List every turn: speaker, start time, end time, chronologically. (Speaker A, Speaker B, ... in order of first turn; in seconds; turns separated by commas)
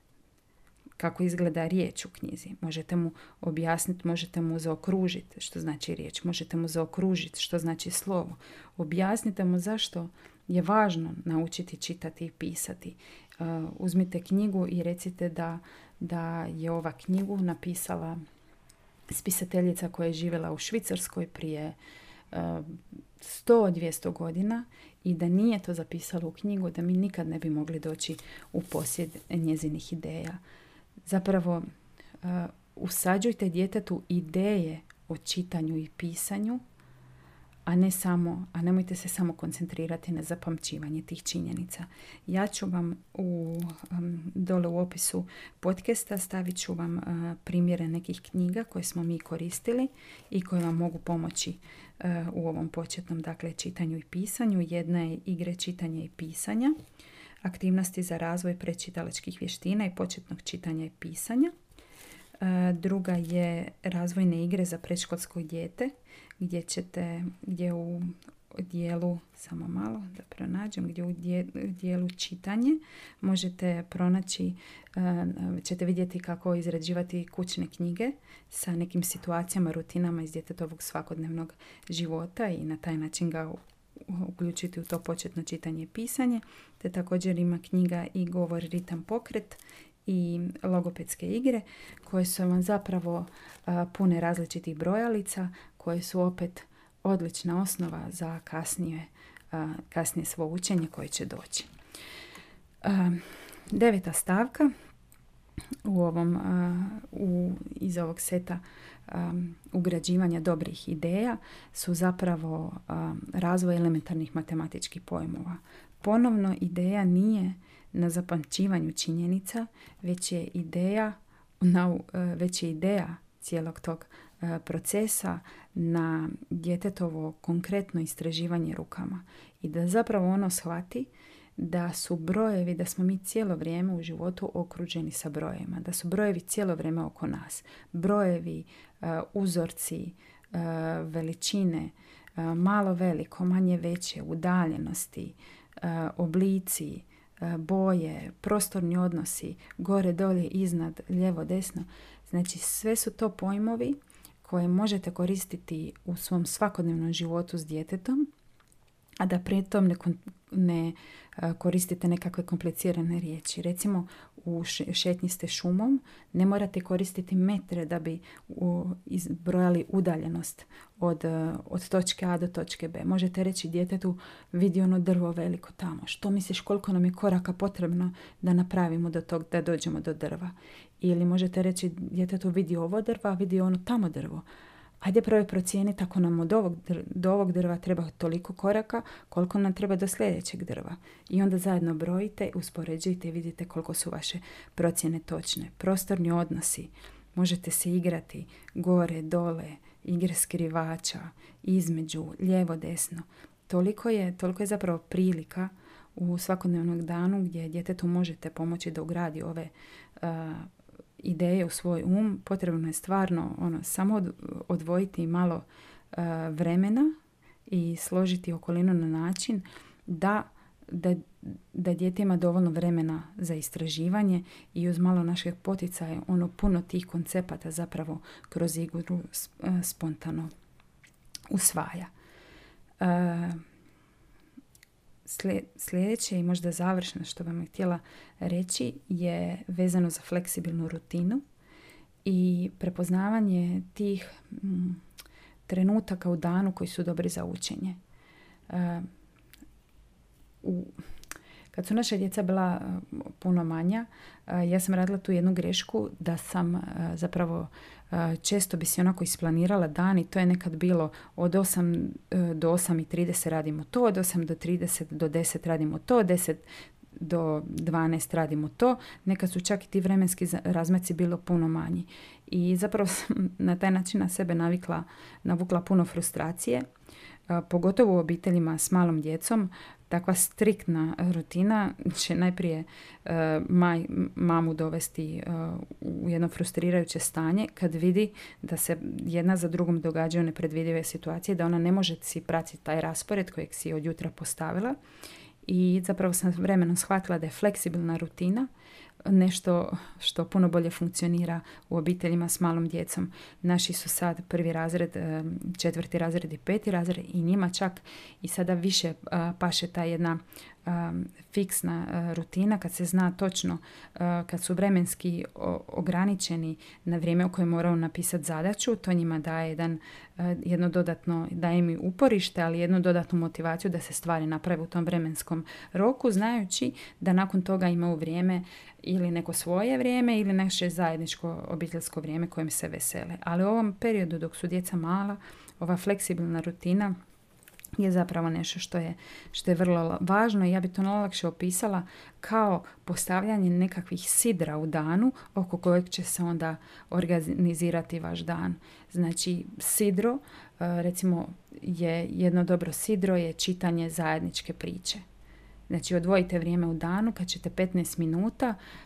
Speaker A: 1.0-18.2, Speaker A: 19.1-21.8, Speaker A: 22.3-30.4, Speaker A: 31.1-31.6, Speaker A: 32.2-36.6, Speaker A: 37.7-56.8, Speaker A: 57.4-61.5, Speaker A: 62.4-101.7, Speaker A: 102.8-104.7, Speaker A: 105.8-158.3, Speaker A: 159.2-184.4, Speaker A: 185.0-217.1, Speaker A: 217.7-230.5, Speaker A: 231.5-232.1, Speaker A: 233.0-233.6, Speaker A: 235.3-241.4, Speaker A: 242.2-245.0, Speaker A: 245.7-248.0, Speaker A: 248.7-249.1, Speaker A: 250.6-251.0, Speaker A: 251.7-276.9, Speaker A: 277.5-295.0, Speaker A: 295.6-298.7, Speaker A: 299.2-337.2, Speaker A: 338.0-355.2, Speaker A: 355.9-358.8